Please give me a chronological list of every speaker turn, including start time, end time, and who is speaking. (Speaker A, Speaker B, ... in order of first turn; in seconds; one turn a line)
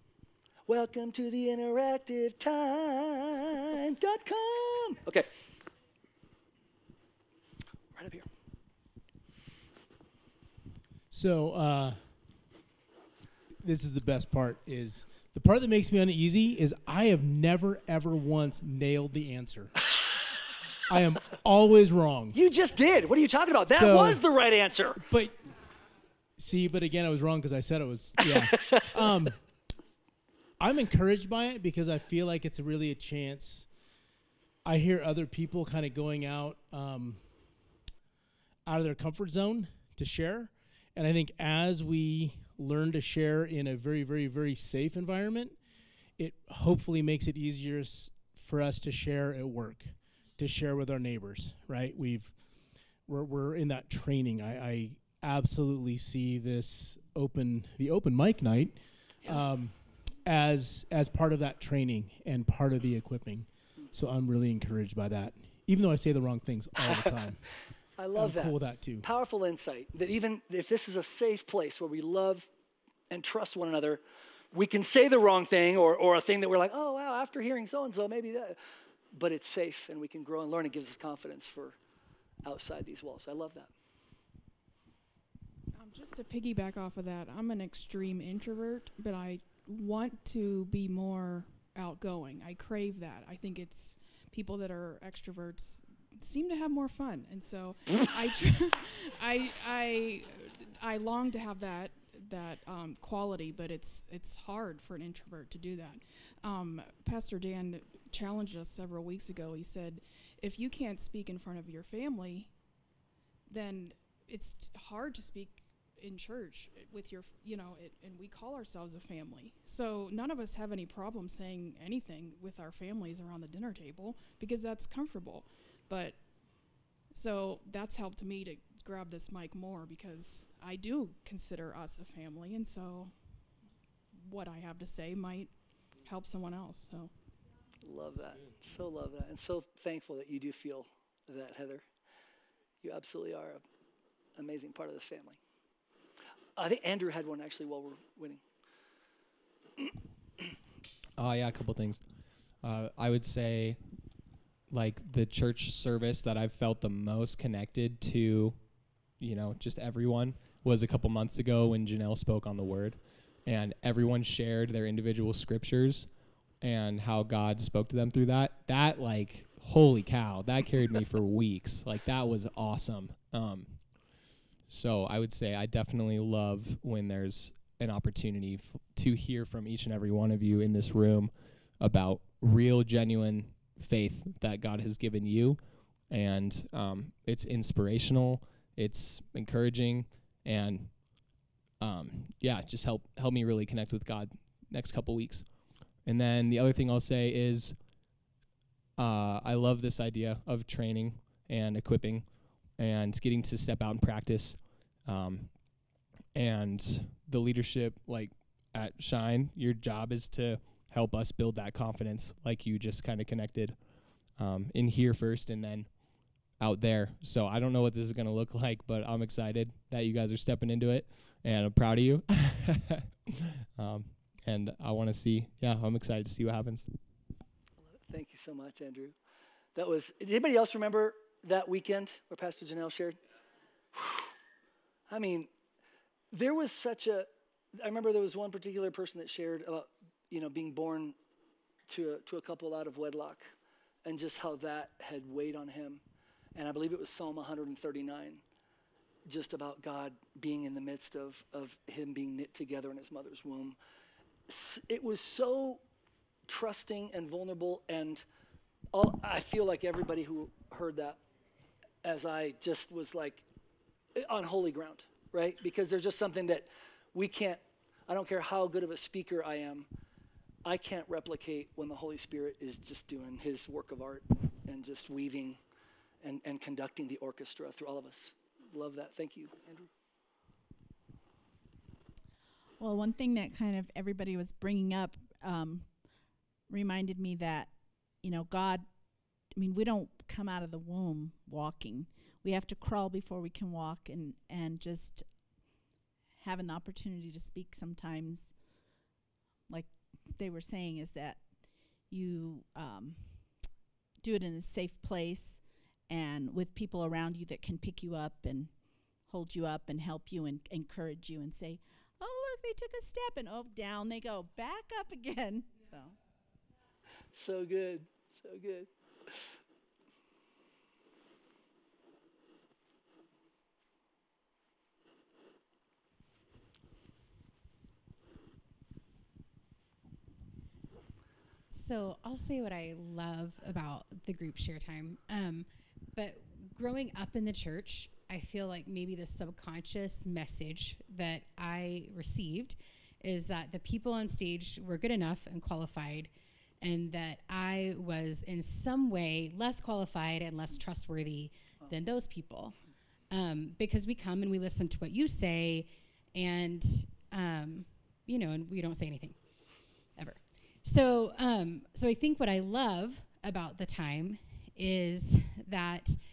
Speaker A: 0.7-5.3
Speaker A: 7.9-8.3
Speaker B: 11.1-12.5
Speaker B: 13.6-19.9
Speaker B: 20.9-22.4
Speaker A: 22.3-25.0
Speaker B: 23.7-24.2
Speaker B: 25.0-25.4
Speaker B: 26.4-29.6
Speaker B: 30.6-33.7
Speaker B: 34.6-37.7
Speaker B: 38.7-67.4
Speaker A: 68.0-72.5
Speaker B: 68.2-69.1
Speaker A: 73.1-74.0
Speaker A: 74.5-78.6
Speaker A: 79.1-81.8
Speaker A: 82.4-83.7
Speaker C: 85.7-112.5
Speaker C: 113.5-133.1
Speaker C: 134.1-137.1
Speaker A: 137.8-141.8
Speaker A: 142.8-143.6
Speaker A: 144.4-145.4
Speaker A: 146.6-148.4
Speaker D: 151.2-153.8
Speaker D: 154.7-198.2
Speaker D: 199.0-226.9
Speaker A: 228.0-229.2
Speaker A: 229.8-233.2
Speaker A: 233.9-234.3
Speaker A: 235.1-235.5
Speaker A: 236.3-241.2
Speaker A: 241.9-243.5
Speaker A: 244.1-246.0
Speaker A: 246.6-248.4
Speaker A: 249.3-253.8
Speaker A: 254.5-255.8
Speaker A: 256.5-258.2
Speaker A: 258.9-261.2
Speaker A: 262.0-263.4
Speaker A: 264.2-269.9
Speaker A: 270.6-275.6
Speaker A: 276.2-279.9
Speaker E: 282.8-299.1
Speaker E: 299.7-316.2
Speaker A: 317.3-318.9
Speaker F: 331.7-366.2